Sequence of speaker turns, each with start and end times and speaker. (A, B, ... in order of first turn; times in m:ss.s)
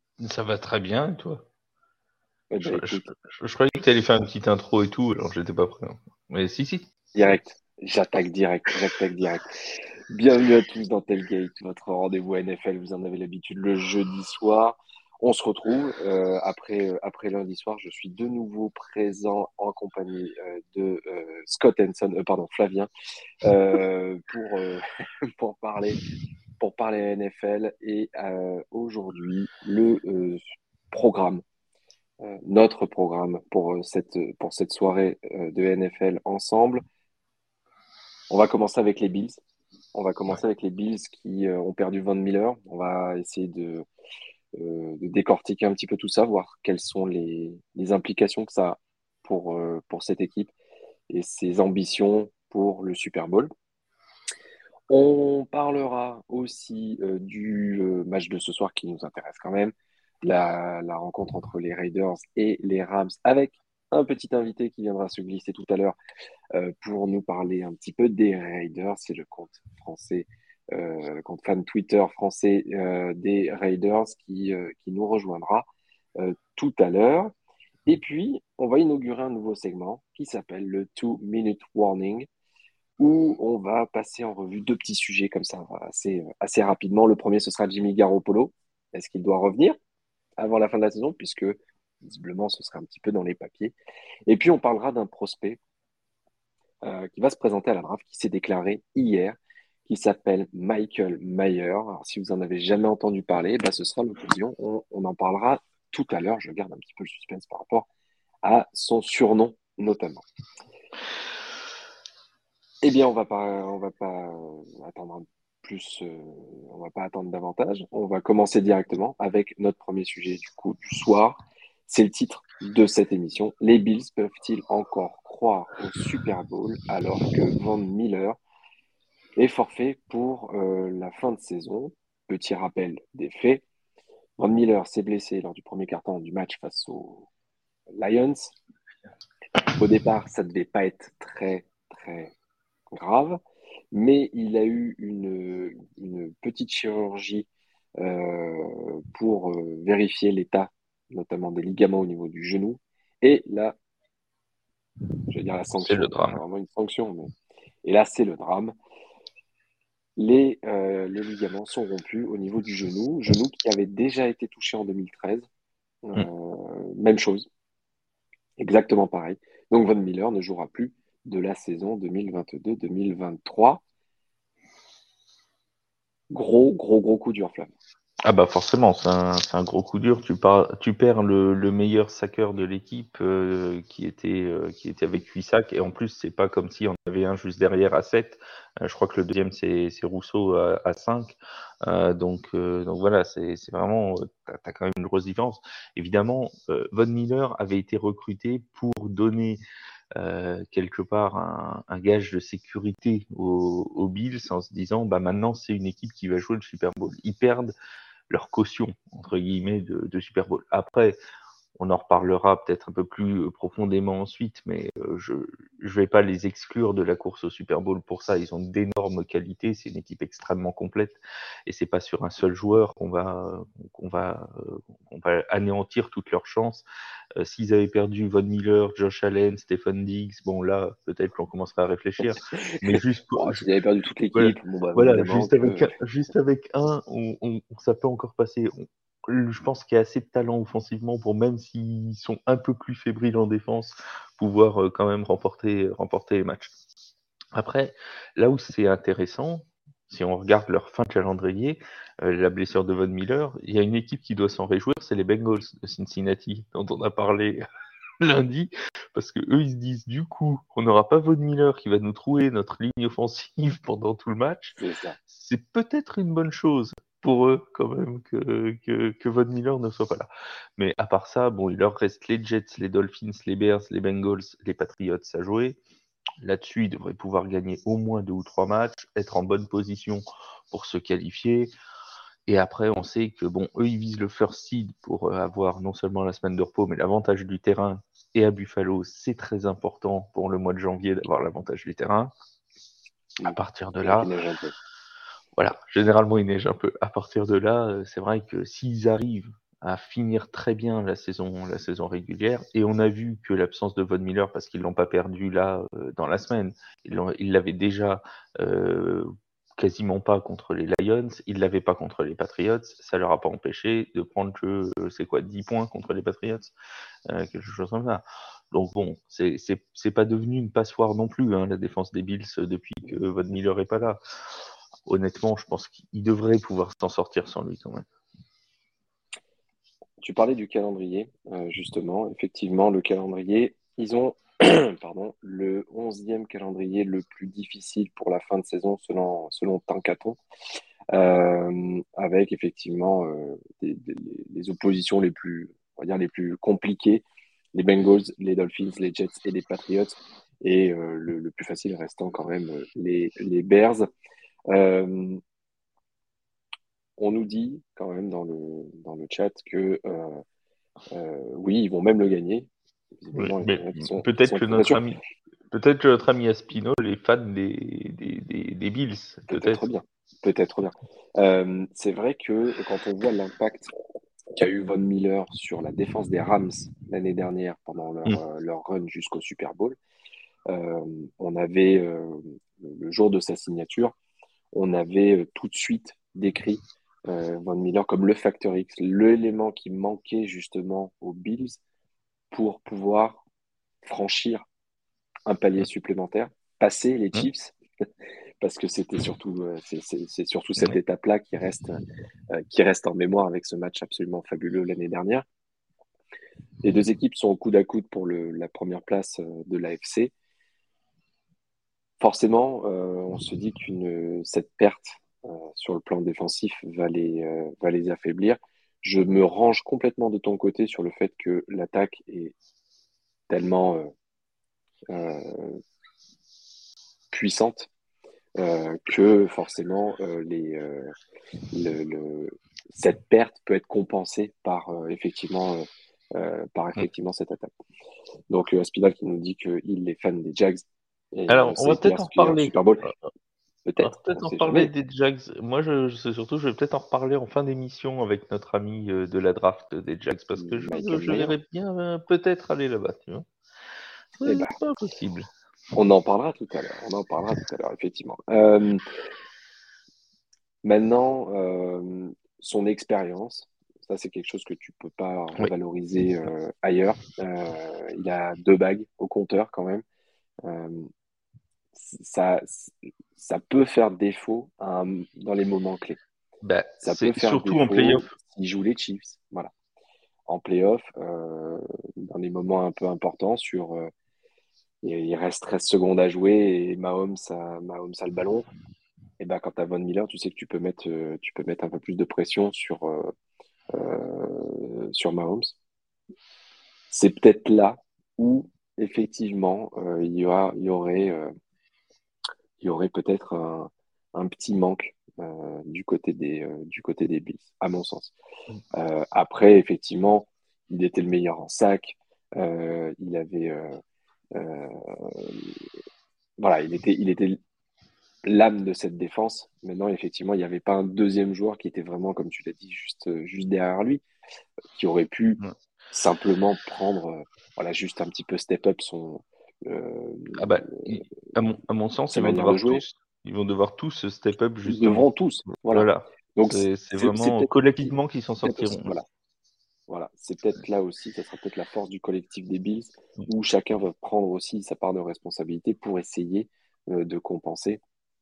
0:00.2-0:01.4 A
0:02.5-0:03.1 B
0:02.6-0:06.9 A
0:07.1-0:09.6 B
0:10.1-0:22.9 B
0:23.4-0:26.0 B
0:26.6-0:31.4 B
0:32.2-0:36.8 B
0:38.3-0:39.4 B
0:39.9-0:43.8 B
0:44.5-0:50.5 B
0:51.1-0:53.5 B
0:54.9-1:06.0 B
1:06.5-1:17.3 B
1:17.9-1:22.3 B
1:23.0-1:29.8 B
1:30.4-1:33.7 B
1:34.3-1:35.6 B
1:36.8-1:47.9 B
1:48.4-1:50.2 B
1:52.8-2:08.4 B
2:09.4-2:13.6 B
2:14.4-2:17.3 B
2:18.0-2:18.5 B
2:19.7-2:22.3 B
2:22.9-2:23.4 B
2:23.9-2:27.5 B
2:28.0-2:33.8 B
2:35.3-2:37.3 B
2:35.9-2:36.4 A
2:37.8-2:38.7 B
2:40.2-2:45.5 B
2:46.0-2:47.5 B
2:48.6-2:53.8 B
2:56.3-2:57.7 B
2:58.2-3:19.6 A
3:20.1-3:27.7 A
3:28.3-3:31.2 A
3:31.8-3:46.8 A
3:47.4-3:53.7 A
3:52.5-3:55.9 B
3:54.3-4:06.7 A
4:07.5-4:17.6 A
4:18.2-4:24.8 A
4:24.8-4:25.2 B
4:25.3-4:35.8 A
4:36.4-4:41.7 A
4:42.5-4:52.3 A
4:53.4-4:54.8 B
4:53.5-4:54.3 A
4:55.6-5:16.7 A
5:17.3-5:24.2 A
5:25.0-5:28.0 A
5:30.2-5:40.4 B
5:41.1-5:47.2 B
5:47.7-5:54.1 B
5:54.7-5:55.4 B
5:57.2-6:00.4 B
6:01.1-6:05.0 B
6:03.4-6:05.2 A
6:05.7-6:09.8 A
6:09.5-6:13.9 B
6:14.5-6:20.0 B
6:20.7-6:24.1 B
6:24.7-6:31.8 B
6:32.5-6:33.4 B
6:34.0-6:34.6 B
6:35.4-6:37.7 B
6:38.6-6:42.0 B
6:42.5-6:45.4 B
6:46.8-6:50.3 B
6:52.2-7:02.5 B
7:03.5-7:04.1 B
7:05.1-7:05.8 B
7:07.3-7:07.9 B
7:08.6-7:11.1 B
7:11.7-7:17.7 B
7:18.5-7:23.0 B
7:21.5-7:23.2 A
7:23.8-7:24.9 B
7:24.0-7:33.4 A
7:30.5-7:31.5 B
7:34.4-7:35.5 A
7:34.4-7:34.7 B
7:35.9-7:39.0 B
7:40.8-7:50.0 B
7:50.6-7:51.1 B
7:51.9-7:56.2 B
7:56.6-7:58.3 A
7:57.0-7:59.7 B
8:00.5-8:04.1 B
8:05.0-8:08.7 B
8:09.4-8:13.3 B
8:13.9-8:15.8 B
8:17.1-8:21.5 B
8:22.8-8:28.3 B
8:28.9-8:34.0 B
8:34.5-8:35.8 B
8:36.6-8:37.6 B
8:38.4-8:44.2 B
8:44.9-8:45.6 B
8:46.1-8:51.4 B
8:50.6-8:59.1 A
8:52.3-8:53.0 B
8:54.8-8:59.2 B
9:00.1-9:08.0 B